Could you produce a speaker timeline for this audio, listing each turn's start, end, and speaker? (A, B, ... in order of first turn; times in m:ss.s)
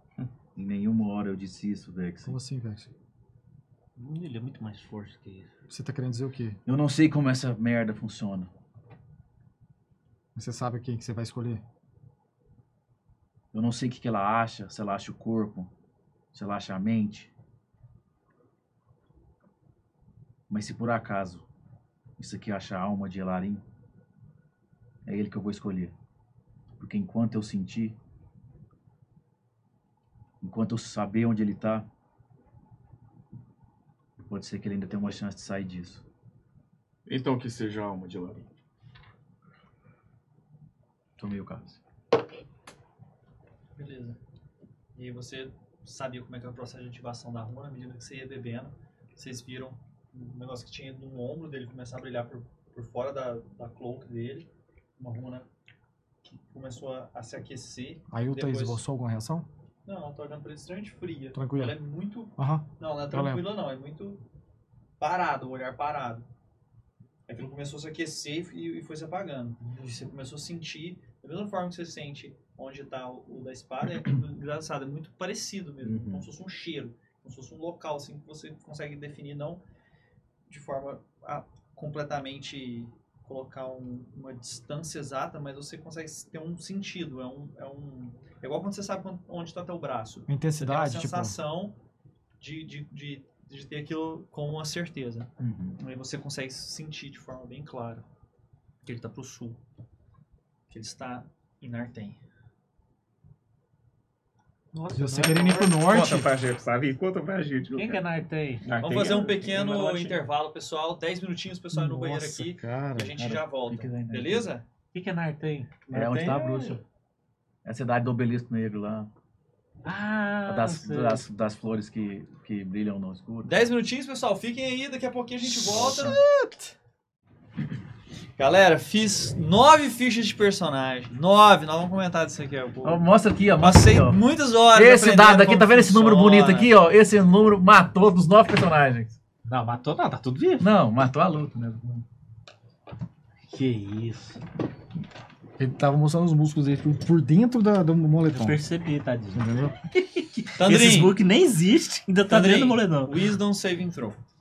0:00.6-0:02.4 A
0:02.2-0:02.9 B
0:04.0-0:05.5 C
0:05.7-0:06.6 B
0:06.7-0:08.5 A
0:10.4-0:11.6 B
0:13.5-0:15.7 A
0:16.3-0:17.3 A
0:20.5-0:21.5 A
0:22.2-0:23.6 A
0:25.0-0:26.0 A
0:26.8-0:28.0 A
0:30.4-0:31.9 A
0:34.2-0:36.0 A
0:37.1-0:38.5 D
0:41.2-0:41.8 A
0:43.8-0:44.2 E
0:45.0-0:55.5 E
0:56.2-0:58.8 E
0:58.1-0:59.5 B
0:59.9-1:04.2 E
1:01.3-1:01.8 B
1:02.4-1:03.4 B
1:05.0-1:06.3 E
1:07.3-1:19.6 E
1:15.8-1:16.3 A
1:20.5-1:31.8 E
1:30.3-1:31.4 B
1:32.4-1:38.1 E
1:35.4-1:35.8 A
1:38.8-1:39.6 E
1:40.7-1:42.2 E
1:44.7-1:45.7 C
1:44.9-1:46.3 B
1:45.8-1:48.0 D
1:47.7-1:48.7 C
1:48.6-1:49.9 D
1:48.8-1:54.7 E
1:49.7-1:50.1 C
1:51.7-1:52.8 B
1:52.6-1:54.5 A
1:54.9-1:55.9 C
1:55.9-1:56.8 D
1:55.9-1:56.8 A
1:57.6-1:59.1 A
1:59.8-2:01.2 C
2:00.4-2:03.7 A
2:03.4-2:06.2 E
2:05.6-2:06.2 A
2:08.4-2:16.7 E
2:12.8-2:19.2 A
2:19.5-2:20.7 C
2:20.6-2:22.0 A
2:23.5-2:24.4 C
2:25.6-2:28.6 B
2:28.3-2:33.2 C
2:29.3-2:29.7 B
2:30.6-2:31.2 E
2:32.3-2:34.2 E